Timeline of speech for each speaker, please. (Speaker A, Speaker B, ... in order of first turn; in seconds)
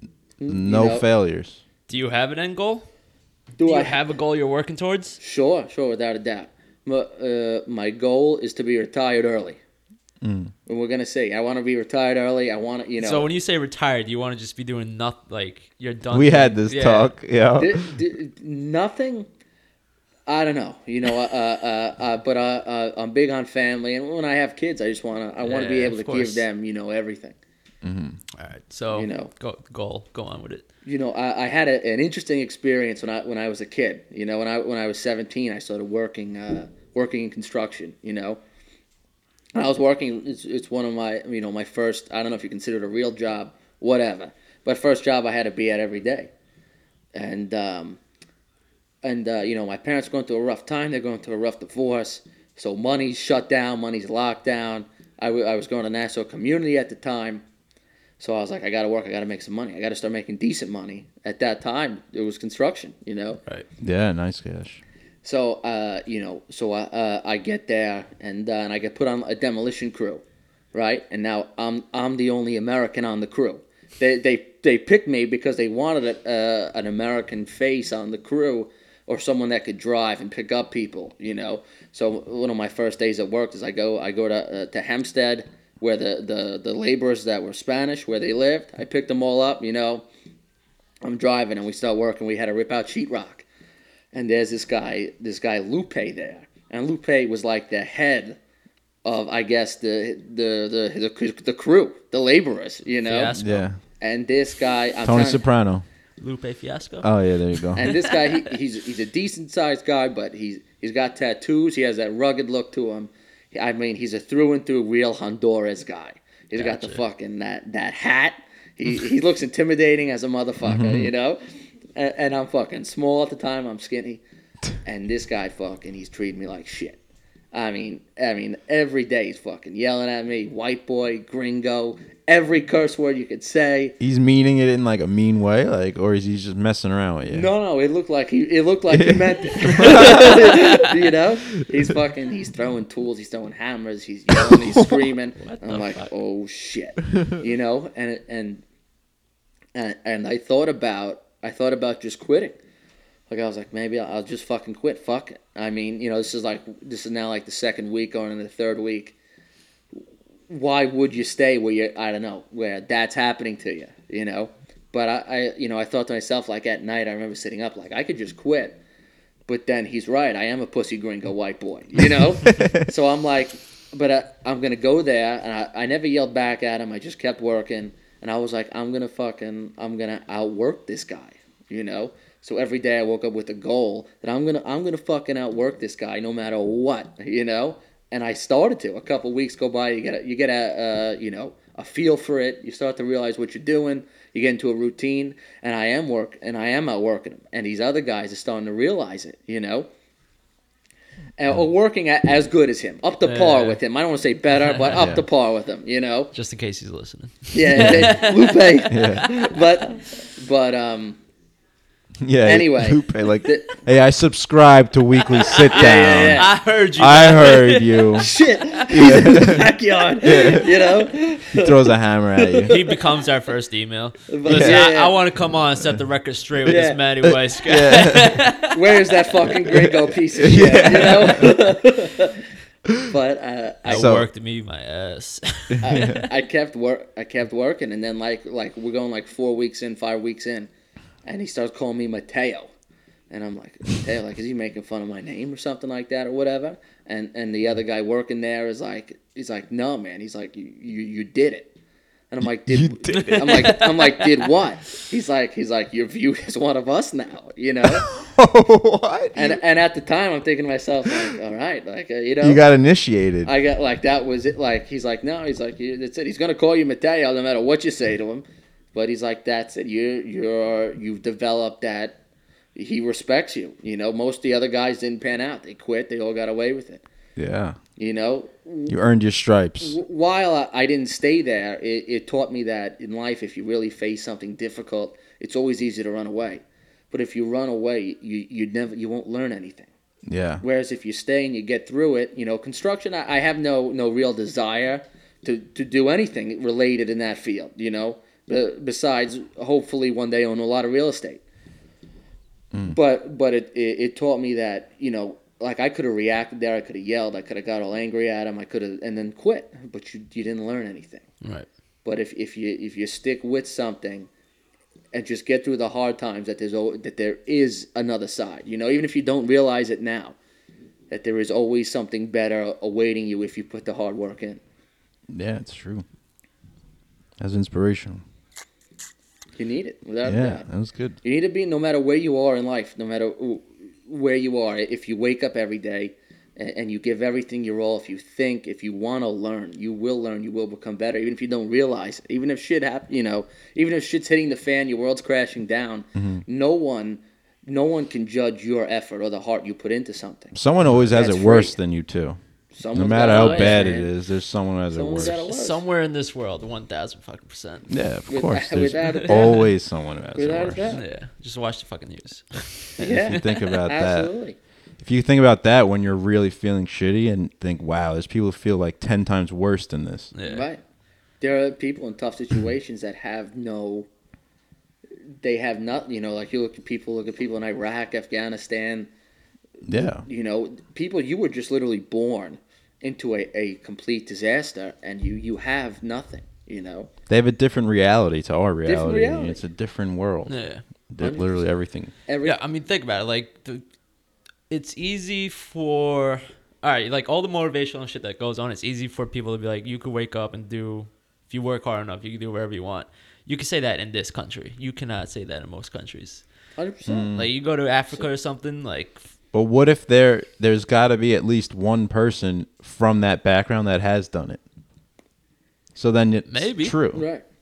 Speaker A: 0.4-1.0, 3.6-4.0, 5.2-9.6, 10.7-13.3, 17.6-19.3, 20.3-27.4, 28.9-29.3, 30.8-38.4, 39.5-46.3, 47.1-48.0, 49.0-57.4, 58.2-63.4, 65.2-70.2, 70.7-90.0, 91.0-93.4, 94.1-98.4, 99.0-103.4, 104.0-105.4, 107.8-121.4, 122.0-124.2, 124.8-127.0, 127.5-133.9, 137.3-148.6, 149.7-152.6, 153.3-159.2, 160.5-168.8, 169.5-199.9, 201.4-206.3, 207.5-211.2, 212.4-213.8, 215.7-216.5, 218.2-221.9, 222.4-222.9, 224.3-225.2, 226.7-227.0, 228.7-232.4, 232.9-234.1, 235.8-240.7, 241.2-242.7, 243.3-251.7, 252.3-258.1, 259.3-262.6, 263.4-272.2, 272.7-277.0, 278.0-279.0, 279.8-289.9, 290.6-301.4, 302.9-311.3, 312.0-314.3, 315.1-320.3, 321.1-324.6, 329.6-330.6, 331.2-351.8, 352.7-354.1, 354.9-355.8, 358.3-359.6, 360.3-361.0, 363.0-364.6, 370.4-370.8, 371.4-374.1, 375.4-379.1, 379.9-387.1, 388.8-389.6, 391.2-391.6, 392.3-392.6, 406.8-407.3, 417.1-417.4
Speaker B: 0.5-1.6, 10.2-10.5, 16.1-17.9, 27.8-28.2, 63.8-64.8, 103.3-103.8, 105.0-105.8, 107.0-107.9, 120.6-121.1, 134.0-137.5, 138.9-140.8, 144.4-145.0, 172.5-172.8, 204.9-205.2, 208.9-209.3, 212.2-218.3, 218.9-220.7, 221.5-222.8, 224.4-224.9, 226.7-228.5, 229.7-231.8, 233.9-234.3, 235.8-236.2, 252.6-253.7, 257.8-259.6, 262.4-263.5, 277.4-277.8, 278.9-280.0, 290.3-290.6, 325.3-326.1, 327.4-328.2, 330.2-331.2, 346.1-346.4, 350.5-352.4, 352.9-355.4, 357.9-360.9, 363.0-364.3, 365.0-370.3, 379.9-380.2, 387.3-390.5, 391.1-392.1, 407.1-407.5, 409.5-414.6, 415.9-417.2
Speaker C: 1.9-2.9, 3.6-5.2, 13.0-17.1, 25.4-26.4, 28.4-30.6, 103.0-103.6, 106.2-107.1, 116.5-117.0, 145.4-146.1, 203.2-203.8, 204.6-204.9, 206.3-209.2, 215.4-218.2, 222.7-228.8, 233.9-236.2, 253.1-254.3, 311.4-311.7, 353.2-353.9, 355.4-357.9, 359.1-359.4, 360.9-363.4, 370.3-370.7, 390.5-390.8, 392.4-393.8, 394.7-406.4, 407.3-409.2, 416.5-416.9